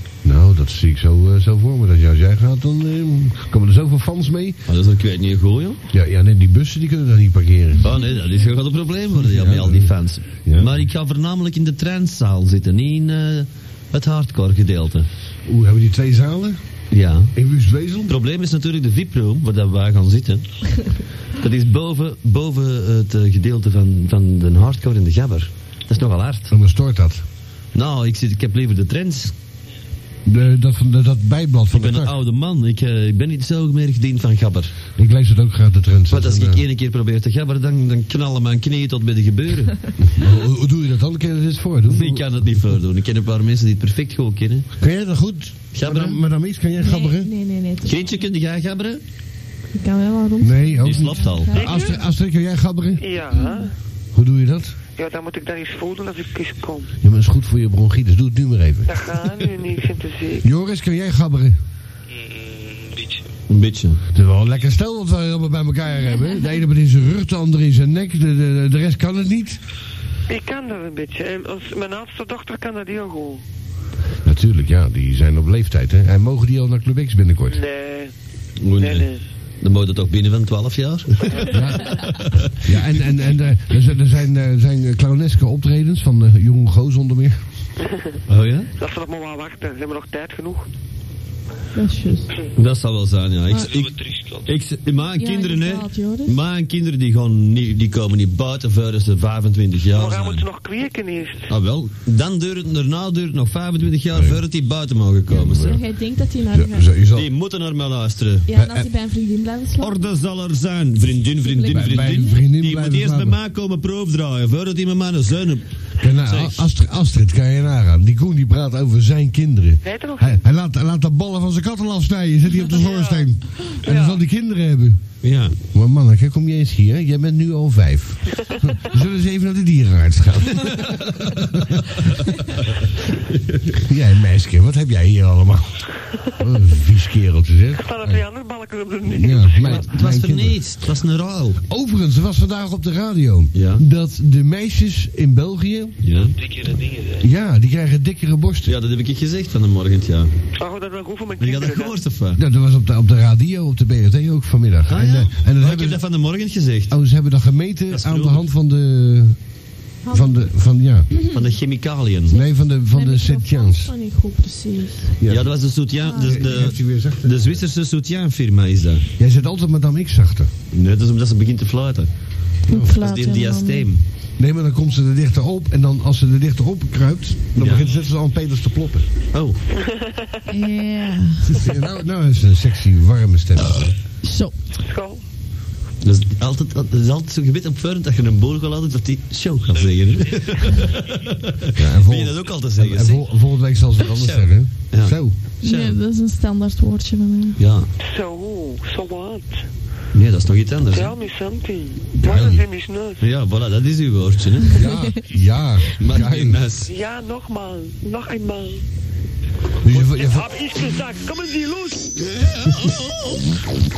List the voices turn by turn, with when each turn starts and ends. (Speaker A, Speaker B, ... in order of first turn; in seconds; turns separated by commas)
Speaker A: 0.2-4.6, Speaker B: 4.7-5.8, Speaker A: 5.9-7.9, Speaker B: 7.8-15.1, Speaker A: 9.2-10.8, Speaker A: 15.5-16.6, Speaker B: 16.9-17.3, Speaker A: 17.4-18.1, Speaker B: 18.1-20.7, Speaker B: 21.4-26.5, Speaker A: 26.5-27.2, Speaker B: 27.7-29.3, Speaker A: 30.3-32.1, Speaker B: 31.7-34.7, Speaker A: 35.0-36.6, Speaker B: 36.1-39.8, Speaker A: 40.0-42.3, Speaker B: 41.9-44.7, Speaker A: 44.8-47.3, Speaker B: 45.7-46.2, Speaker C: 46.8-48.1, Speaker B: 47.8-49.0, Speaker C: 49.8-52.0, Speaker A: 50.4-53.0, Speaker B: 50.8-51.6, Speaker D: 51.5-52.0, Speaker D: 53.0-53.7, Speaker C: 53.3-53.7, Speaker A: 54.1-54.8, Speaker D: 55.0-56.9, Speaker A: 57.0-59.3, Speaker D: 58.9-60.4, Speaker A: 60.4-61.6, Speaker E: 62.1-63.3, Speaker B: 63.5-64.0, Speaker A: 64.1-69.6, Speaker D: 70.3-73.4, Speaker A: 74.2-77.6, Speaker D: 77.5-78.1, Speaker B: 78.6-79.1, Speaker D: 78.8-79.2, Speaker B: 79.6-82.7, Speaker A: 81.5-82.1, Speaker A: 82.6-87.4, Speaker B: 88.3-88.7, Speaker D: 88.8-90.7, Speaker C: 91.8-92.3, Speaker B: 92.6-93.9, Speaker E: 93.5-94.6, Speaker B: 94.5-100.5, Speaker C: 95.2-96.3, Speaker D: 99.9-101.5, Speaker B: 101.5-105.8, Speaker A: 104.1-104.4, Speaker A: 105.3-105.8, Speaker C: 105.3-106.9, Speaker A: 106.5-107.3, Speaker B: 107.1-108.5, Speaker C: 108.5-110.0, Speaker A: 108.5-108.9, Speaker B: 109.8-115.7, Speaker C: 111.4-112.4, Speaker A: 111.7-113.4, Speaker A: 116.0-125.0, Speaker B: 116.3-116.7, Speaker D: 119.8-120.4, Speaker D: 122.7-123.3, Speaker D: 123.8-124.2, Speaker B: 125.2-125.6, Speaker A: 125.7-132.1, Speaker A: 133.7-138.2, Speaker D: 137.8-139.9, Speaker A: 139.1-140.6, Speaker B: 139.6-141.6, Speaker A: 141.7-146.0, Speaker B: 143.5-143.8, Speaker B: 146.0-146.4, Speaker E: 146.1-147.3, Speaker A: 147.2-148.7, Speaker B: 148.7-150.3, Speaker D: 150.6-152.0, Speaker B: 151.4-152.4, Speaker A: 152.4-156.0, Speaker B: 154.9-156.9, Speaker A: 156.9-159.4, Speaker B: 157.9-158.4, Speaker C: 160.1-160.5, Speaker A: 160.1-161.1, Speaker B: 161.3-162.4, Speaker A: 162.3-163.9, Speaker C: 162.3-165.1, Speaker A: 165.2-165.6, Speaker B: 165.3-169.1, Speaker C: 166.0-166.4, Speaker A: 166.1-167.6, Speaker A: 169.2-170.5, Speaker B: 170.7-172.1, Speaker A: 172.7-173.0, Speaker C: 172.7-173.9, Speaker B: 173.0-174.0, Speaker A: 174.4-179.1, Speaker B: 177.6-177.9, Speaker B: 179.3-179.6, Speaker D: 179.8-180.4, Speaker C: 180.5-181.6, Speaker A: 181.5-183.9, Speaker C: 184.2-184.6, Speaker D: 184.8-185.2, Speaker B: 186.0-193.3, Speaker E: 189.7-190.9, Speaker A: 191.8-195.3, Speaker B: 194.0-196.0, Speaker C: 195.6-197.6, Speaker B: 197.6-197.9, Speaker D: 198.1-199.6, Speaker B: 200.1-201.2, Speaker D: 200.9-203.2, Speaker A: 202.2-202.7, Speaker B: 203.2-204.9, Speaker A: 204.7-206.6, Speaker B: 206.0-206.9, Speaker D: 206.9-208.8, Speaker A: 209.8-210.5, Speaker D: 210.0-212.2, Speaker B: 212.5-213.2